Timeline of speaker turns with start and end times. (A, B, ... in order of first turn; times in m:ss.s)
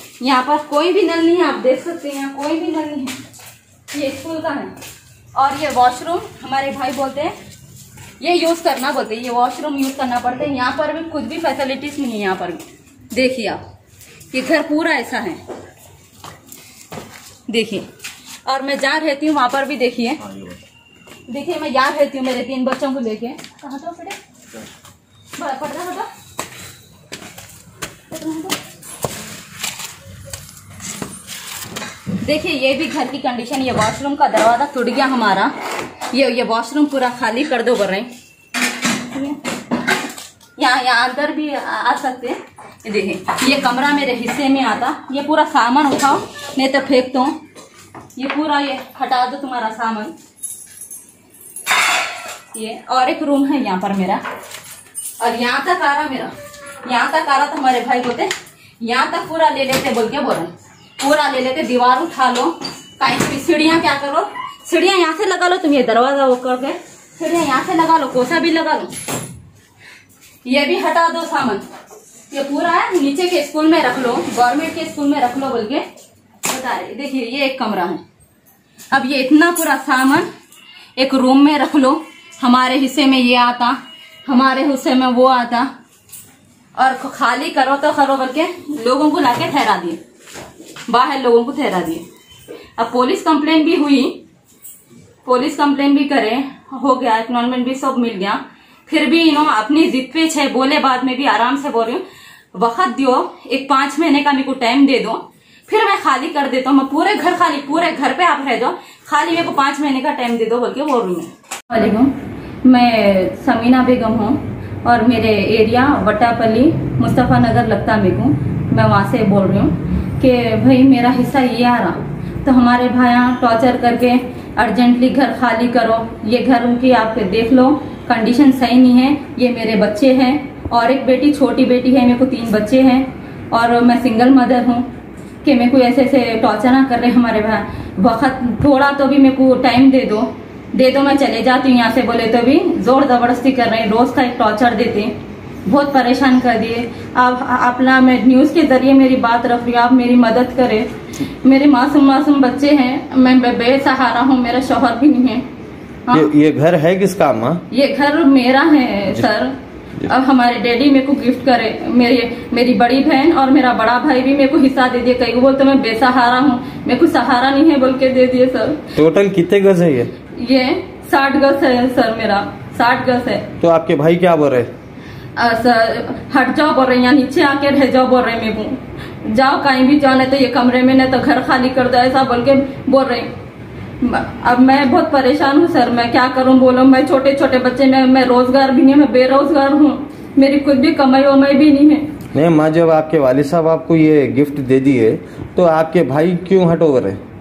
0:00.2-0:03.2 A
0:03.9-0:04.7 A
0:05.4-0:07.4 A
0:08.2-0:13.6 A
0:14.3-0:15.4 A
0:17.5-0:17.9 A
0:18.4-0:20.2 A
0:21.3-0:24.2 A
0:25.4-0:26.1 A
0:28.1-0:28.6 A
0:32.2-0:35.5 A
0:36.1-0:38.1 A
0:40.6-0:47.4 A
0:48.2-0:50.1 A
0:52.5-0:54.2 A
0:55.2-0:56.3 A
0:56.8-1:08.9 A
1:10.4-1:11.6 A
1:12.3-1:15.9 A
1:16.4-1:18.0 A
1:18.9-1:20.3 A
1:21.0-1:25.7 A
1:26.8-1:30.0 A
1:30.9-1:32.1 A
1:32.8-1:34.2 A
1:35.2-1:42.0 A
1:42.5-2:14.9 A
2:15.4-2:30.9 A
2:31.4-2:35.5 A
2:36.1-2:37.6 B
2:37.7-2:48.9 A
2:49.0-2:50.1 B
2:50.3-2:53.5 A
2:53.6-2:54.7 B
2:55.4-3:03.3 A
3:04.0-3:12.1 A
3:12.3-3:17.2 B